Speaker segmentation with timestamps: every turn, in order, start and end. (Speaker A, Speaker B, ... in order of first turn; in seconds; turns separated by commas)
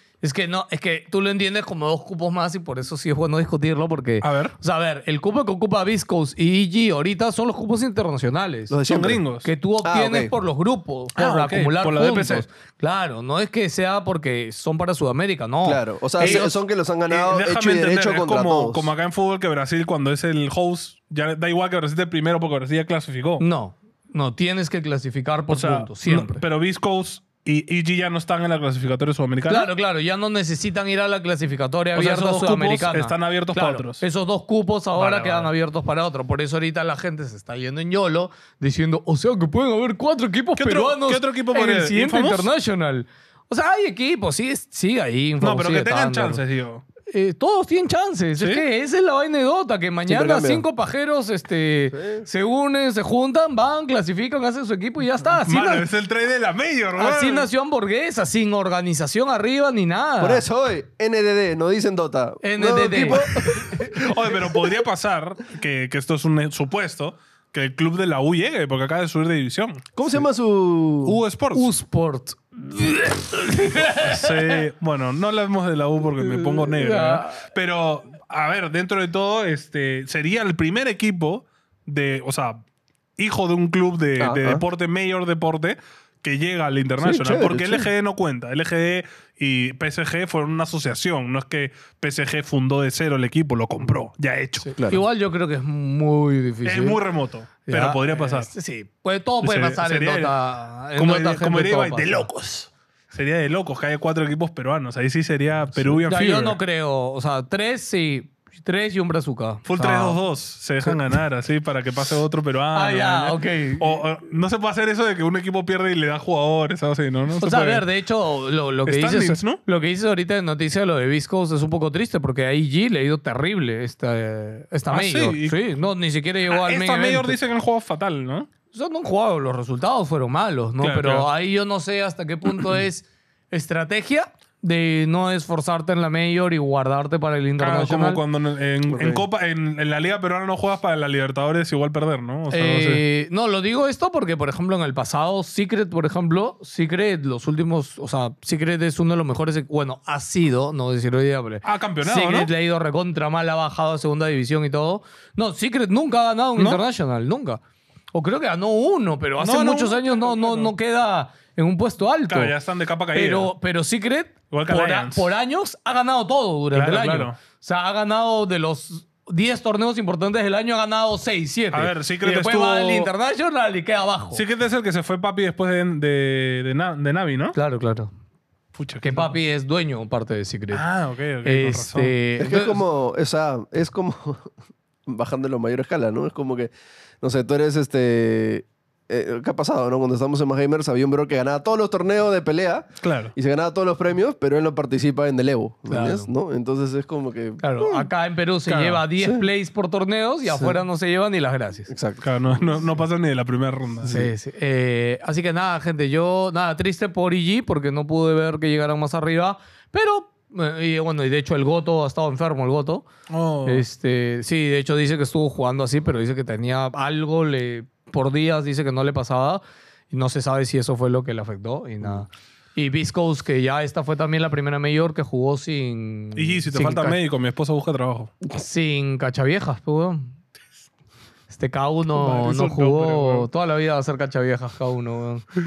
Speaker A: 0.2-8.7, Speaker B: 4.2-4.5, Speaker C: 8.7-9.2, Speaker B: 8.8-9.5, Speaker A: 9.4-16.5, Speaker C: 9.8-10.3, Speaker B: 11.2-12.4, Speaker C: 15.6-18.9, Speaker B: 17.1-23.4, Speaker A: 23.4-26.4, Speaker B: 25.5-29.7, Speaker A: 29.5-46.4, Speaker B: 31.9-34.0, Speaker B: 35.0-35.5, Speaker B: 40.5-42.5, Speaker B: 45.4-46.8, Speaker A: 47.1-55.9, Speaker B: 48.4-48.6, Speaker C: 50.1-50.6, Speaker C: 51.9-52.2, Speaker B: 55.4-57.5, Speaker A: 57.0-60.4, Speaker C: 60.2-63.6, Speaker A: 62.4-64.0, Speaker B: 63.1-69.9, Speaker C: 70.0-71.2, Speaker B: 71.0-71.7, Speaker A: 71.5-74.6, Speaker B: 73.7-82.6, Speaker A: 76.2-77.4, Speaker B: 83.2-94.7, Speaker C: 84.2-84.6, Speaker C: 87.0-87.9, Speaker A: 94.6-97.0, Speaker C: 94.8-95.0, Speaker B: 96.6-98.5, Speaker A: 97.7-102.3, Speaker B: 99.4-106.6, Speaker A: 106.0-110.2, Speaker B: 109.6-117.8, Speaker A: 112.7-114.0, Speaker A: 117.4-127.4, Speaker B: 118.8-119.6, Speaker B: 124.9-125.6, Speaker B: 126.5-128.5, Speaker A: 128.7-138.2, Speaker B: 130.8-131.3, Speaker B: 137.6-143.0, Speaker C: 138.9-139.2, Speaker A: 142.5-157.6, Speaker B: 151.6-152.5, Speaker B: 156.6-156.8, Speaker A: 158.1-162.5, Speaker B: 159.4-160.7, Speaker B: 162.3-163.5, Speaker A: 163.1-174.4, Speaker B: 164.5-165.3, Speaker B: 166.7-167.3, Speaker B: 171.7-173.1, Speaker B: 174.3-177.6, Speaker A: 177.5-178.1, Speaker B: 178.7-179.3, Speaker A: 179.0-180.8, Speaker B: 180.7-182.1, Speaker A: 181.4-182.8, Speaker C: 182.4-184.5, Speaker C: 185.1-198.1, Speaker B: 193.0-193.3, Speaker A: 195.9-196.3, Speaker A: 197.6-201.9, Speaker B: 198.7-199.0, Speaker C: 199.2-199.4, Speaker C: 200.5-200.8, Speaker C: 201.9-202.6, Speaker B: 202.2-204.1, Speaker C: 204.0-204.3, Speaker A: 204.1-213.0, Speaker B: 213.3-213.8, Speaker A: 213.7-227.2, Speaker B: 226.3-228.3, Speaker A: 228.5-230.3, Speaker A: 231.5-235.5, Speaker B: 232.1-233.5